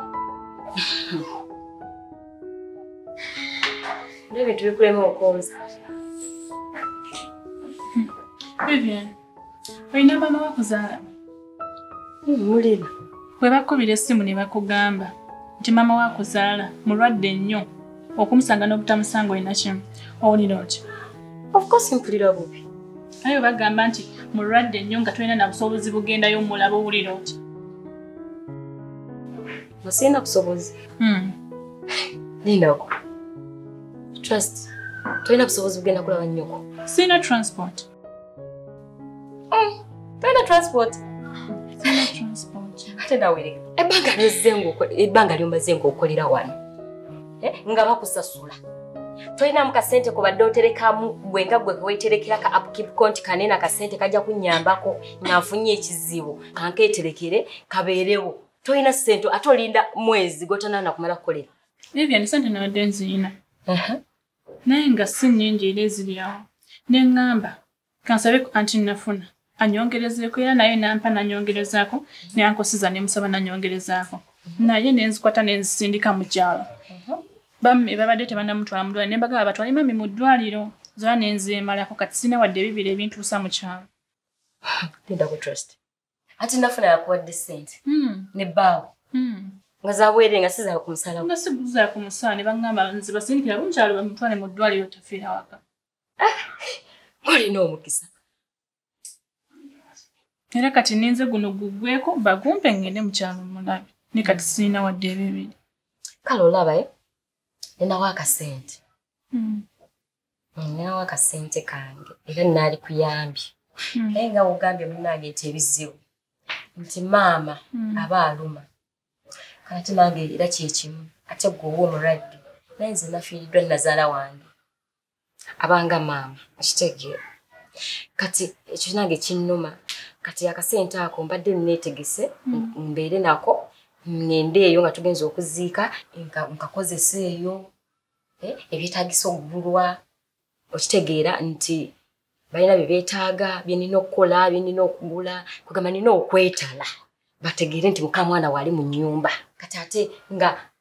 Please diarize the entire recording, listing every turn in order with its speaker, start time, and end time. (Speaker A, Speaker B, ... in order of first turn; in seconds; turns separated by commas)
Speaker A: 4.3-5.5, Speaker B: 8.6-9.1, Speaker B: 9.9-11.0, Speaker A: 12.2-12.9, Speaker B: 13.4-20.8, Speaker A: 21.5-22.6, Speaker B: 23.2-27.4, Speaker A: 29.8-30.7, Speaker B: 31.0-31.3, Speaker A: 32.4-32.9, Speaker A: 34.2-34.7, Speaker A: 35.2-36.6, Speaker B: 36.9-37.9, Speaker A: 39.5-41.0, Speaker B: 41.8-43.0, Speaker A: 43.0-46.5, Speaker A: 47.4-48.6, Speaker A: 49.4-61.5, Speaker B: 61.9-63.3, Speaker A: 63.7-64.0, Speaker B: 64.7-76.7, Speaker A: 76.9-77.2, Speaker B: 77.6-83.9, Speaker A: 85.0-85.8, Speaker A: 86.4-87.8, Speaker B: 87.9-88.3, Speaker A: 88.3-88.9, Speaker B: 89.1-89.6, Speaker A: 89.8-91.3, Speaker B: 91.2-95.6, Speaker A: 96.2-96.5, Speaker A: 97.2-98.1, Speaker B: 100.5-105.5, Speaker A: 106.2-106.9, Speaker A: 107.8-108.8, Speaker B: 109.3-109.6, Speaker A: 110.6-113.5, Speaker A: 114.1-116.0, Speaker A: 116.8-118.7, Speaker B: 117.8-118.1, Speaker A: 119.7-124.5, Speaker A: 125.6-127.2, Speaker A: 128.2-137.7, Speaker A: 138.4-140.0, Speaker A: 140.7-141.9, Speaker A: 142.5-146.9, Speaker A: 147.4-150.6